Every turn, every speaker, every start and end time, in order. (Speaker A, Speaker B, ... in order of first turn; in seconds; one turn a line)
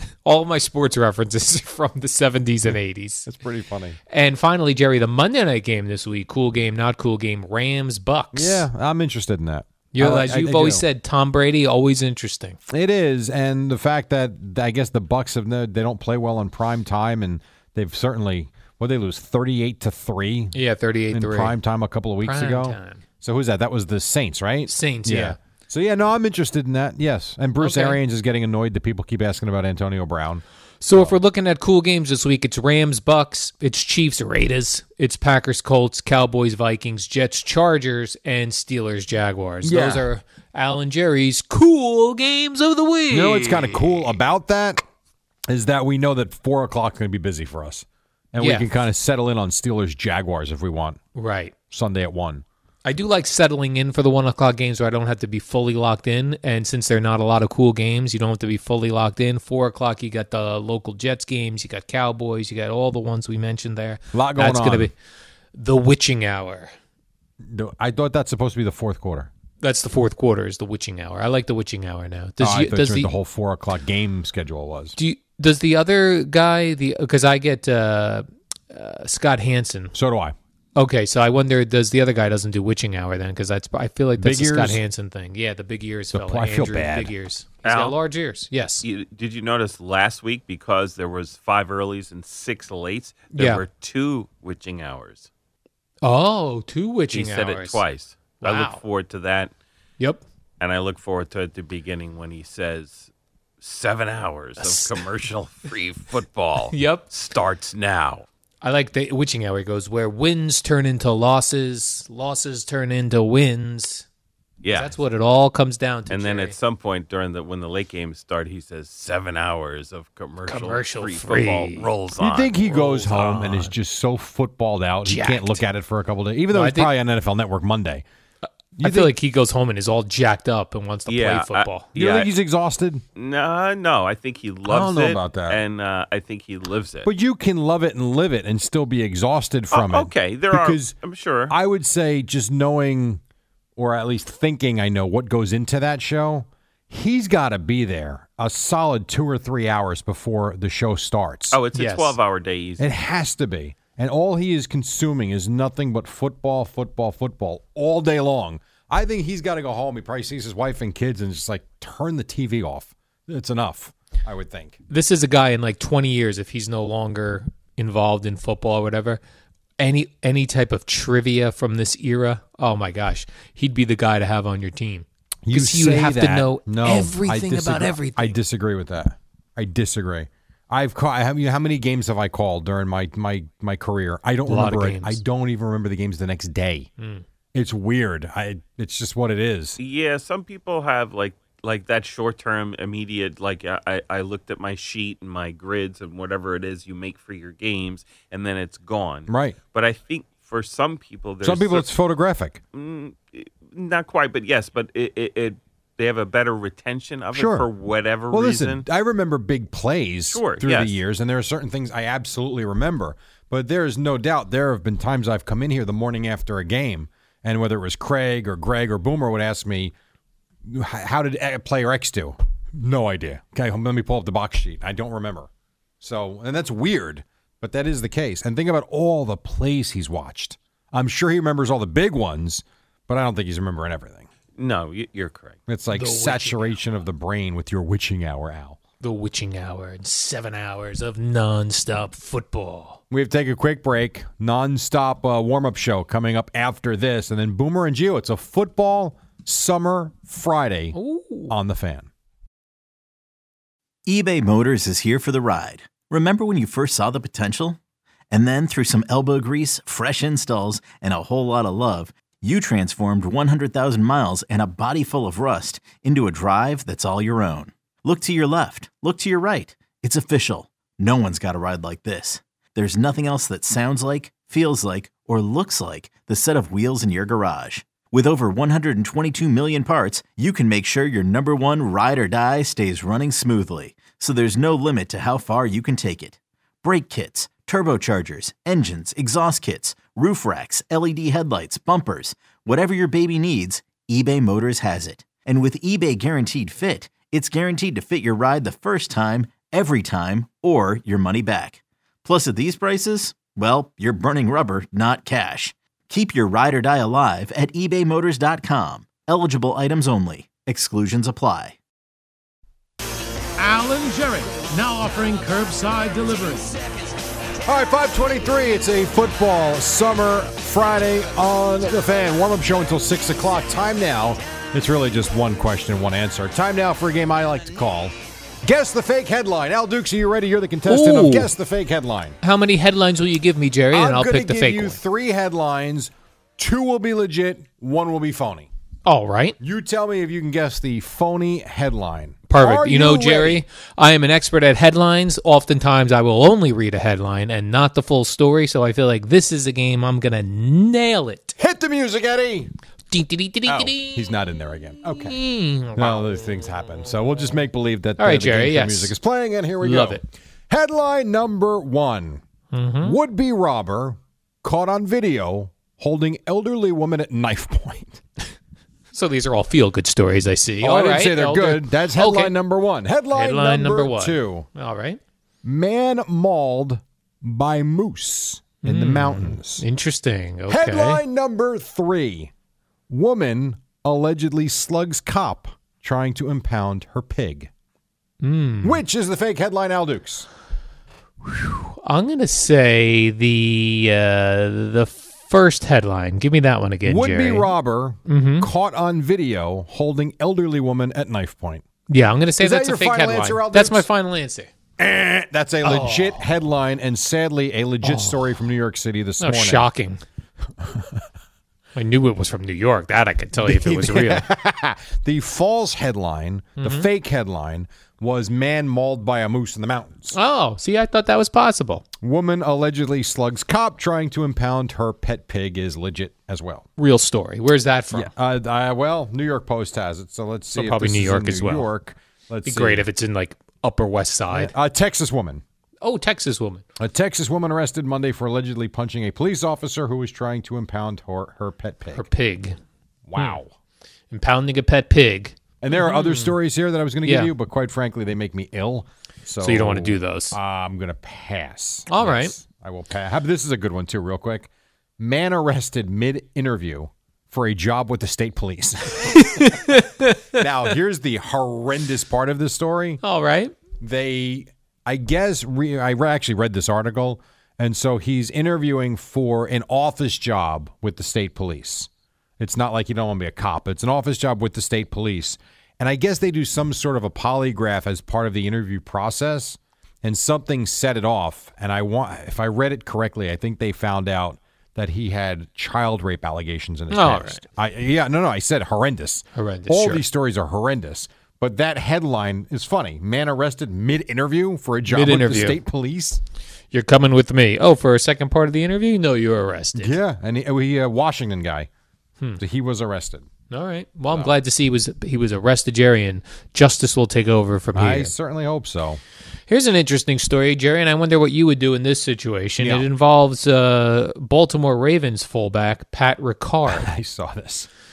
Speaker A: 0.2-3.3
Speaker B: 3.2-4.0
Speaker A: 4.1-8.7
Speaker B: 8.3-10.8
Speaker A: 9.9-12.6
Speaker B: 12.7-20.6
Speaker A: 20.5-21.6
Speaker B: 21.1-30.4
Speaker A: 22.2-23.0
Speaker A: 24.7-25.4
Speaker A: 27.6-28.0
Speaker A: 30.8-44.1
Speaker B: 39.6-40.0
Speaker B: 43.1-44.8
Speaker B: 45.5-51.0
Speaker A: 48.4-48.7
Speaker A: 51.1-51.5
Speaker B: 51.7-52.4
Speaker A: 52.8-64.9
Speaker B: 64.1-64.9
Speaker A: 65.5-66.7
Speaker B: 67.4-69.3
Speaker A: 69.6-73.1
Speaker B: 72.4-75.0
Speaker A: 75.0-79.9
Speaker B: 79.9-80.3
Speaker A: 80.8-88.8
Speaker B: 84.2-84.8
Speaker B: 86.1-87.1
Speaker C: 87.6-88.0
Speaker C: 88.8-95.3
Speaker A: 93.3-93.6
Speaker A: 96.0-97.8
Speaker C: 97.1-99.5
Speaker A: 98.4-98.8
Speaker C: 100.6-103.1
Speaker C: 103.6-108.2
Speaker A: 104.6-104.9
Speaker A: 106.7-107.0
Speaker A: 108.6-114.0
Speaker C: 114.6-114.9
Speaker A: 114.7-116.5
Speaker C: 116.1-123.5
Speaker A: 120.4-121.9
Speaker B: 122.2-128.0
Speaker A: 123.1-123.6
Speaker A: 125.0-125.6
Speaker A: 126.5-126.9
Speaker B: 128.8-129.1
Speaker A: 128.8-131.9
Speaker C: 131.1-132.3
Speaker B: 131.9-133.0
Speaker C: 133.2-137.1
Speaker B: 134.7-135.6
Speaker B: 137.0-140.9
Speaker C: 139.7-141.5
Speaker B: 141.5-143.2
Speaker B: 143.8-151.6
Speaker C: 151.5-152.8
Speaker A: 151.7-152.2
Speaker B: 152.8-164.8
Speaker A: 164.9-169.2
Speaker A: 169.8-178.4
Speaker B: 175.4-186.9
Speaker A: 184.5-185.2
Speaker A: 187.0-187.2
Speaker B: 187.5-189.8
Speaker C: 189.8-201.9
Speaker B: 199.3-199.6
Speaker B: 201.4-202.6
Speaker C: 202.7-208.8
Speaker B: 207.3-207.7
Speaker B: 208.3-219.9
Speaker C: 210.3-210.9
Speaker B: 220.6-225.5
Speaker B: 226.0-234.3
Speaker C: 234.6-235.6
Speaker B: 235.7-238.8
Speaker A: 235.9-236.8
Speaker A: 239.0-243.0
Speaker B: 243.1-250.9
Speaker A: 250.9-251.5
Speaker B: 251.5-252.1
Speaker D: 254.1-257.8
Speaker D: 258.3-311.8
Speaker E: 313.6-316.8
Speaker B: 317.6-332.4
Speaker A: 330.9-331.5
Speaker A: 332.4-335.0
Speaker B: 333.9-338.7
Speaker A: 339.1-339.6
Speaker B: 339.6-343.6
Speaker A: 342.5-351.6
Speaker B: 351.6-352.7
Speaker A: 353.1-354.3
Speaker B: 353.6-355.4
Speaker A: 355.0-357.6
Speaker B: 355.9-362.4
Speaker A: 358.2-359.1
Speaker A: 359.8-360.2
Speaker A: 362.7-363.2
Speaker B: 363.0-368.2
Speaker A: 369.1-372.5
Speaker B: 370.8-374.7
Speaker A: 373.3-375.2
Speaker B: 375.6-379.8
Speaker A: 378.8-381.2
Speaker B: 380.7-382.5
Speaker B: 383.1-387.7
Speaker A: 388.4-389.0
Speaker B: 388.8-390.5
Speaker A: 391.4-397.7
Speaker B: 397.0-401.8
Speaker A: 398.2-398.7
Speaker A: 402.1-404.7
Speaker B: 402.6-404.1
Speaker B: 405.0-409.9
Speaker A: 405.8-406.4
Speaker A: 408.0-408.4
Speaker A: 409.4-410.2
Speaker B: 410.8-411.2
Speaker A: 411.9-414.4
Speaker B: 413.6-420.3
Speaker A: 416.8-417.1
Speaker A: 420.3-422.0
Speaker B: 422.2-426.9
Speaker A: 427.0-428.3
Speaker B: 428.1-433.1
Speaker A: 430.7-431.9
Speaker A: 432.6-434.7
Speaker B: 434.5-435.6
Speaker A: 436.0-436.8
Speaker B: 437.0-442.3
Speaker A: 442.1-442.8
Speaker B: 443.2-443.7
Speaker A: 444.3-446.6
Speaker B: 445.8-460.0
Speaker A: 447.2-447.5
Speaker A: 449.6-450.6
Speaker A: 452.1-452.5
Speaker A: 459.3-460.6
Speaker B: 460.5-463.2
Speaker A: 463.2-463.7
Speaker B: 464.0-496.4
Speaker A: 487.1-487.6
Speaker A: 489.5-490.2
Speaker A: 495.1-495.8
Speaker A: 496.9-500.1
Speaker B: 499.9-501.9
Speaker B: 502.6-503.5
Speaker A: 503.7-508.3
Speaker B: 507.9-509.2
Speaker A: 509.7-517.1
Speaker B: 512.8-513.1
Speaker B: 516.9-517.9